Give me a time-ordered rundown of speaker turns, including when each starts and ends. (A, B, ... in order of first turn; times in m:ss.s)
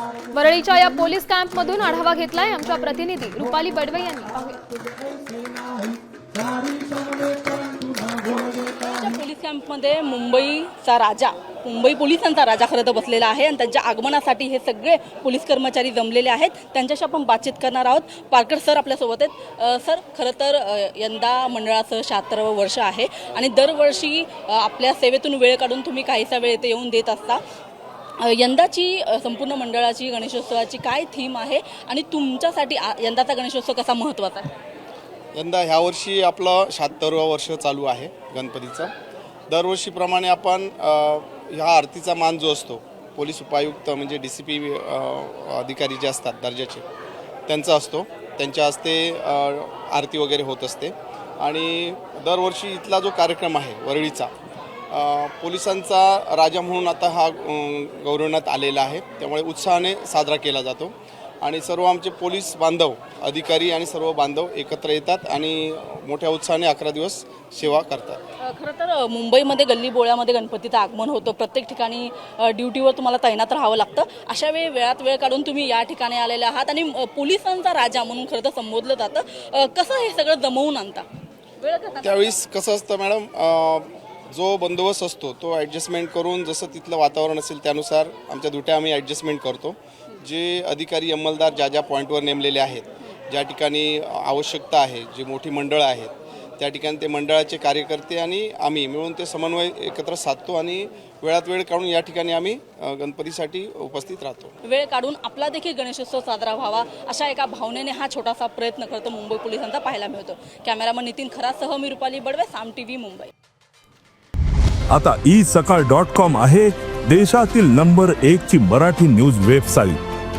0:00.3-0:04.6 A
0:08.4-0:27.4 B
0:28.2-0:34.5 B
0:35.3-0:38.9 C
0:39.5-0:46.8 C
0:47.5-0:54.3 C
0:54.9-1:08.2 C
1:08.4-1:21.0 B
1:21.6-1:22.4 B
1:22.0-1:44.5 C
1:44.6-1:53.3 B
1:54.9-2:00.0 D